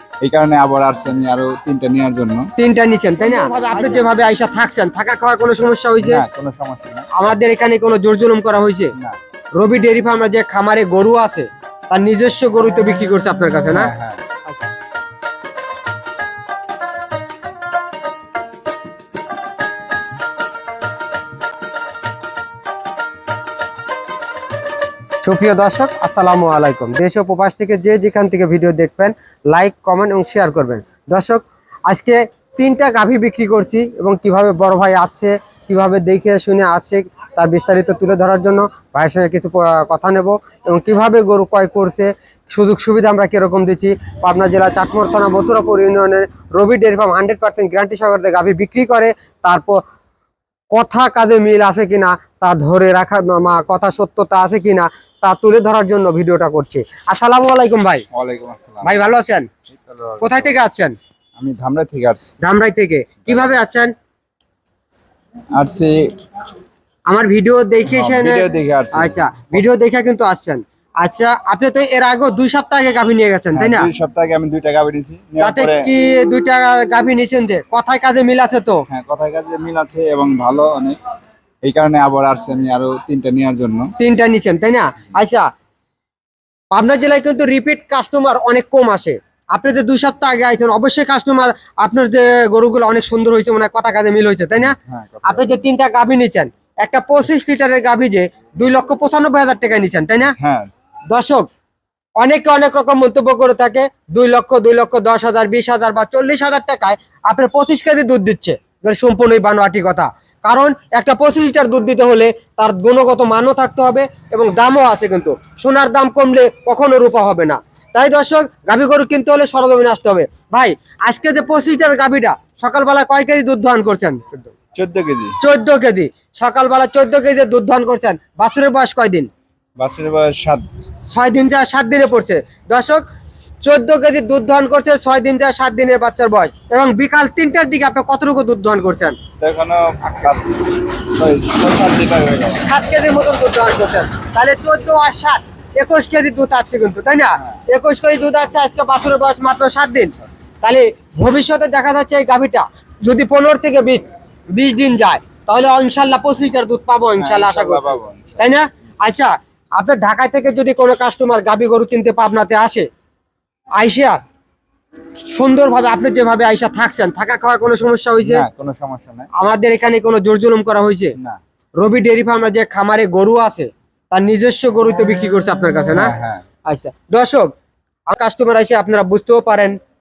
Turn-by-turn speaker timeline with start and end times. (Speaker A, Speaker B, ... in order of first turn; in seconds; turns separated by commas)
Speaker A: 0.2-2.5, Speaker B: 2.6-6.2, Speaker A: 6.0-7.1, Speaker B: 7.1-8.9, Speaker B: 9.6-13.9, Speaker A: 13.7-14.2, Speaker B: 25.2-49.8, Speaker B: 50.7-58.0, Speaker A: 58.1-59.0, Speaker B: 58.8-59.5, Speaker A: 59.7-60.5, Speaker B: 60.2-61.0, Speaker A: 61.4-62.3, Speaker B: 62.4-63.9, Speaker A: 63.2-63.6, Speaker A: 65.5-66.0, Speaker B: 67.1-73.9, Speaker A: 67.9-69.6, Speaker A: 73.5-75.9, Speaker B: 75.4-78.8, Speaker A: 78.9-81.0, Speaker A: 81.6-83.9, Speaker B: 84.0-85.5, Speaker B: 86.7-100.3, Speaker A: 94.6-95.7, Speaker A: 100.4-100.7, Speaker B: 101.1-101.5, Speaker B: 102.2-124.5, Speaker A: 124.7-125.4, Speaker B: 125.4-129.3, Speaker A: 129.8-130.6, Speaker B: 131.1-133.0, Speaker B: 133.6-139.2, Speaker A: 139.4-142.7, Speaker B: 142.5-162.9, Speaker A: 157.2-158.4, Speaker B: 163.8-164.2, Speaker B: 165.2-168.4, Speaker A: 168.2-169.3, Speaker B: 169.3-171.1, Speaker B: 171.8-176.1, Speaker A: 175.9-176.4, Speaker B: 176.7-177.5, Speaker B: 178.1-179.8